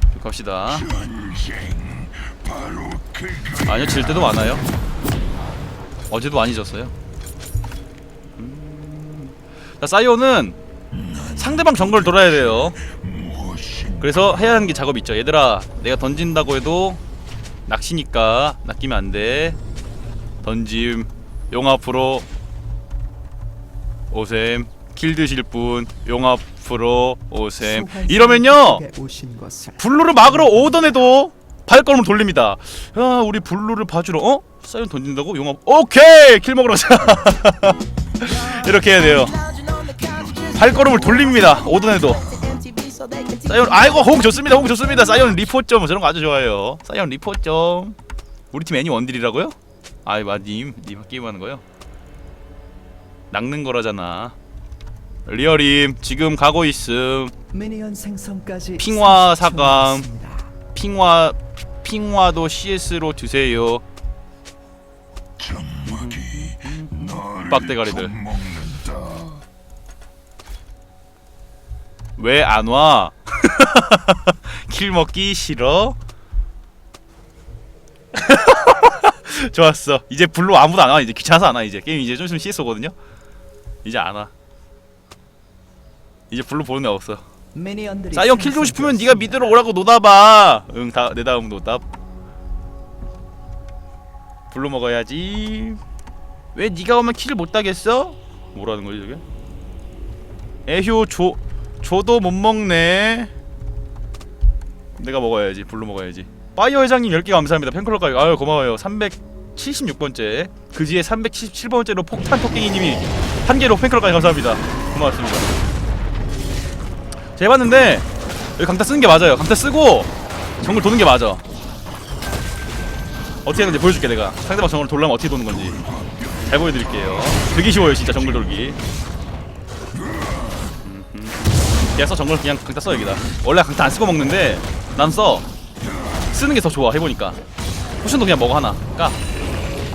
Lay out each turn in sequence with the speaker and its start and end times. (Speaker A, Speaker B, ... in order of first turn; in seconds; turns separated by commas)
Speaker A: 0.1-0.8, Speaker B: 0.7-4.6, Speaker A: 3.6-4.6, Speaker A: 6.1-6.9, Speaker A: 8.4-10.6, Speaker B: 10.9-14.4, Speaker A: 11.4-12.8, Speaker A: 14.0-17.0, Speaker A: 17.7-19.6, Speaker A: 20.4-22.2, Speaker A: 24.1-28.8, Speaker C: 27.6-30.8, Speaker A: 29.8-39.3, Speaker B: 39.1-42.8, Speaker C: 39.8-40.3, Speaker A: 40.5-42.2, Speaker C: 42.6-43.5, Speaker A: 43.4-48.0, Speaker A: 48.5-51.6, Speaker A: 53.3-54.3, Speaker A: 55.2-57.3, Speaker C: 57.5-60.5, Speaker A: 58.8-60.1, Speaker A: 60.7-63.8, Speaker B: 65.4-69.4, Speaker A: 65.9-68.1, Speaker A: 72.2-76.0, Speaker A: 78.1-82.9, Speaker A: 83.8-84.3, Speaker A: 86.3-87.2, Speaker C: 87.5-89.6, Speaker A: 88.1-91.8, Speaker A: 94.5-95.8, Speaker A: 96.5-99.2, Speaker A: 100.7-103.3, Speaker A: 105.0-115.5, Speaker A: 117.4-118.1, Speaker A: 118.6-121.4, Speaker A: 123.4-125.8, Speaker B: 125.5-128.8, Speaker A: 126.5-128.8, Speaker B: 129.9-130.7, Speaker A: 130.8-135.4, Speaker B: 135.8-136.3, Speaker A: 136.3-137.4, Speaker A: 138.0-139.2